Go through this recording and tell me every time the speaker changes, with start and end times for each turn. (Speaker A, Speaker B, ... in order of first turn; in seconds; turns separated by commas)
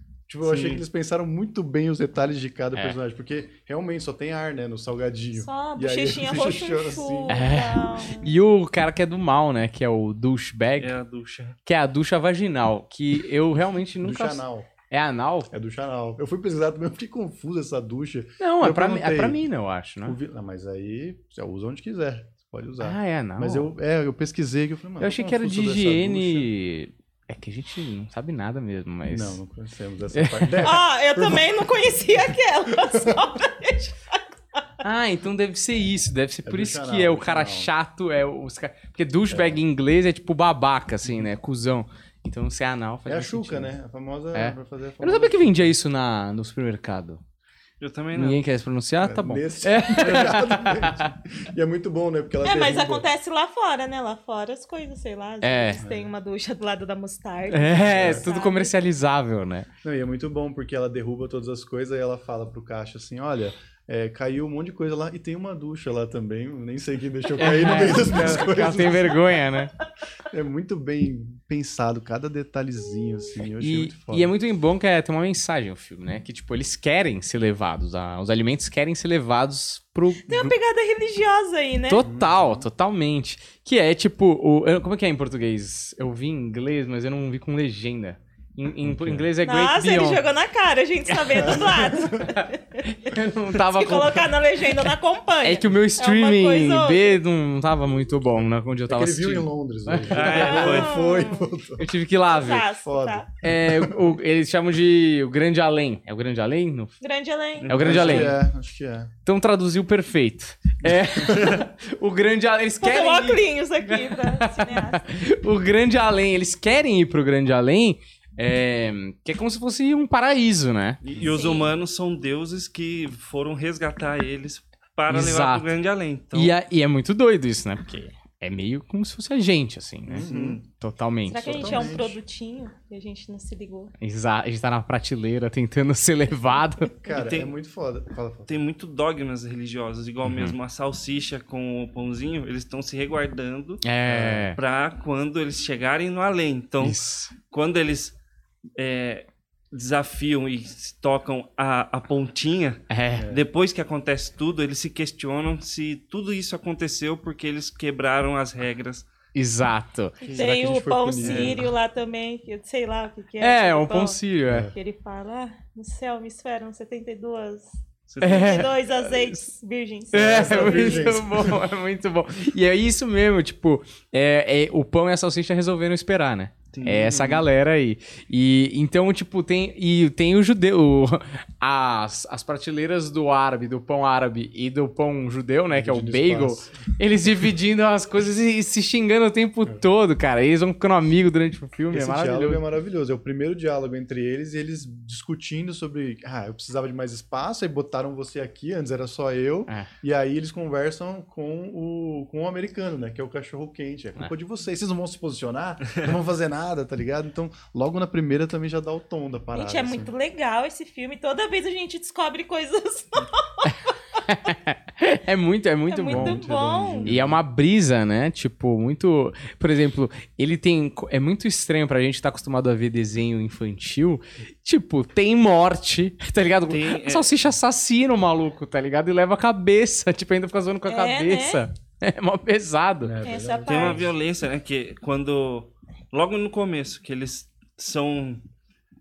Speaker A: 0.3-7.5, Speaker B: 0.4-0.8, Speaker C: 5.3-8.3, Speaker D: 7.3-10.9, Speaker B: 10.8-11.6, Speaker D: 11.6-15.5, Speaker A: 14.0-14.7, Speaker A: 15.5-19.4, Speaker D: 18.4-20.2, Speaker A: 20.0-26.5, Speaker D: 22.8-23.7, Speaker D: 25.0-29.4, Speaker A: 29.1-31.5, Speaker D: 30.1-30.7, Speaker C: 30.6-34.6, Speaker A: 32.8-33.1, Speaker D: 34.8-43.7, Speaker A: 36.4-37.7, Speaker A: 39.3-39.6, Speaker A: 43.0-45.7, Speaker D: 44.3-47.2, Speaker B: 47.8-48.4, Speaker D: 48.1-51.1, Speaker A: 49.0-53.0, Speaker C: 52.4-58.7, Speaker D: 55.4-55.8, Speaker A: 55.8-56.1, Speaker D: 57.5-59.7, Speaker A: 57.9-58.3, Speaker A: 59.8-69.2, Speaker D: 67.4-69.7, Speaker C: 68.3-69.8, Speaker A: 70.3-74.3, Speaker D: 73.5-80.5, Speaker C: 80.3-82.0, Speaker D: 81.9-90.2, Speaker A: 82.0-82.7, Speaker A: 88.8-89.3, Speaker C: 89.4-92.8, Speaker D: 91.1-94.3, Speaker A: 91.3-92.3, Speaker C: 93.5-97.2, Speaker D: 95.4-100.4, Speaker A: 98.9-101.9, Speaker B: 100.1-101.1, Speaker C: 100.3-101.5, Speaker D: 101.8-102.7, Speaker C: 102.3-103.3, Speaker A: 102.8-104.0, Speaker D: 103.4-107.0, Speaker C: 107.0-107.8, Speaker B: 107.6-108.3, Speaker D: 107.7-108.3, Speaker A: 107.8-109.1, Speaker D: 109.2-121.0, Speaker B: 111.3-111.6, Speaker C: 112.8-115.0, Speaker B: 121.0-126.5, Speaker A: 121.1-121.4, Speaker C: 121.3-121.7, Speaker D: 125.1-125.7, Speaker D: 126.3-130.3, Speaker A: 130.1-130.6, Speaker B: 130.2-130.6, Speaker D: 130.8-131.8, Speaker C: 131.2-133.9, Speaker A: 131.4-132.2, Speaker D: 134.0-136.9, Speaker A: 136.9-138.5, Speaker B: 137.1-137.5, Speaker B: 138.5-143.8, Speaker D: 140.2-140.6, Speaker D: 143.8-144.6, Speaker A: 144.1-144.5, Speaker B: 144.6-148.1, Speaker D: 146.8-147.3, Speaker B: 148.8-159.1, Speaker D: 152.9-153.3, Speaker A: 153.1-153.4, Speaker D: 159.3-160.2, Speaker B: 160.2-160.5, Speaker C: 160.2-164.2, Speaker A: 160.3-161.7, Speaker B: 161.2-161.6, Speaker D: 163.4-164.7, Speaker A: 164.5-164.7, Speaker C: 164.7-167.7, Speaker B: 168.1-168.7, Speaker D: 168.2-169.4, Speaker C: 168.2-171.2, Speaker D: 170.1-192.6, Speaker A: 170.1-171.6, Speaker B: 176.7-177.2, Speaker A: 176.9-177.4, Speaker A: 185.7-186.9, Speaker A: 191.9-210.1, Speaker C: 209.5-213.9, Speaker D: 214.2-216.4, Speaker C: 215.9-217.1, Speaker A: 216.1-217.4, Speaker D: 217.0-233.2, Speaker B: 226.7-227.3, Speaker C: 230.9-231.7, Speaker A: 233.0-234.1, Speaker C: 233.2-234.1, Speaker B: 233.6-238.4